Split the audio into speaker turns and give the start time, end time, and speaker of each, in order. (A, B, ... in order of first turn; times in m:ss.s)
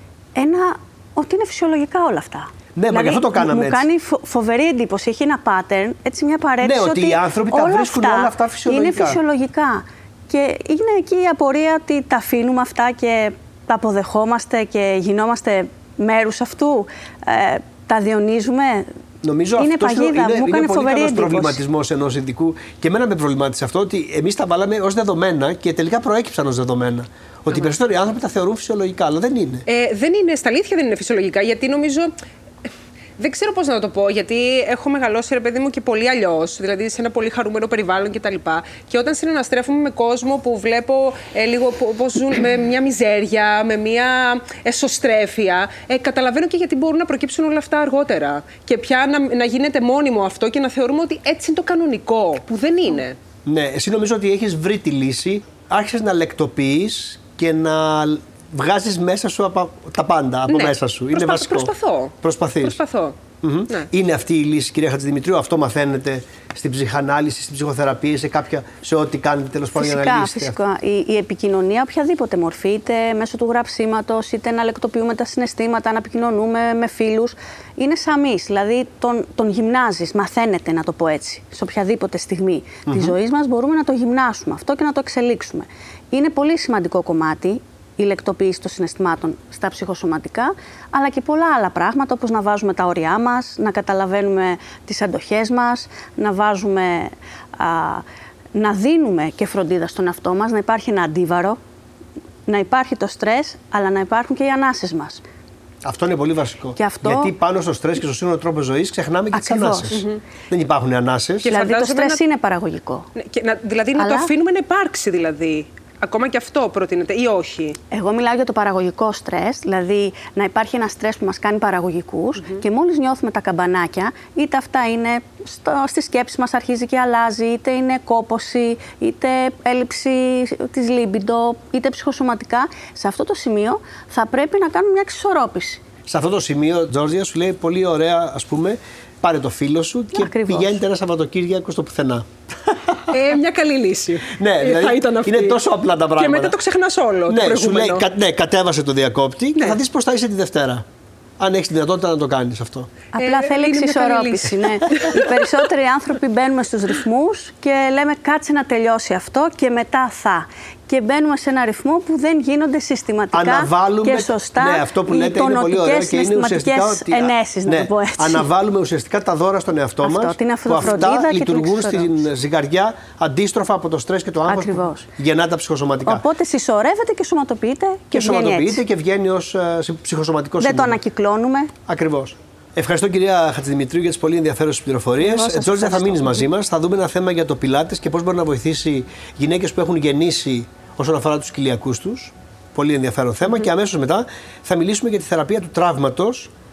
0:00.4-0:18.9 A
0:02.8-0:03.8 B
0:06.6-0:09.2 B
0:19.2-0:29.7 B
0:19.6-0:21.6 A
0:29.7-0:32.1 C
0:33.2-0:53.2 C
0:53.5-1:02.8 B
1:00.5-1:03.2 C
1:03.4-1:10.6 B
1:09.8-1:38.0 A
1:22.9-1:23.1 B
1:38.6-1:41.6 A
1:42.5-1:45.2 A
1:45.8-1:51.6 B
1:46.8-1:47.3 A
1:49.3-1:49.9 A
1:49.9-1:50.2 C
1:51.4-1:52.2 C
1:51.5-1:53.1 A
1:53.2-1:57.8 C
1:54.0-1:54.3 A
1:57.9-2:15.8 A
2:16.1-2:23.2 B
2:20.1-2:20.8 A
2:23.1-2:25.6 C
2:24.3-2:26.6 B
2:26.2-2:28.1 C
2:27.3-2:30.8 B
2:31.4-2:32.9 B
2:33.1-2:48.5 A
2:33.2-2:35.6 C
2:43.3-2:56.2 B
2:50.0-2:52.2 A
2:54.5-2:55.1 A
2:56.1-2:58.8 A
2:58.1-3:01.0 B
3:00.6-3:01.7 A
3:01.9-3:16.5 B
3:05.2-3:06.5 A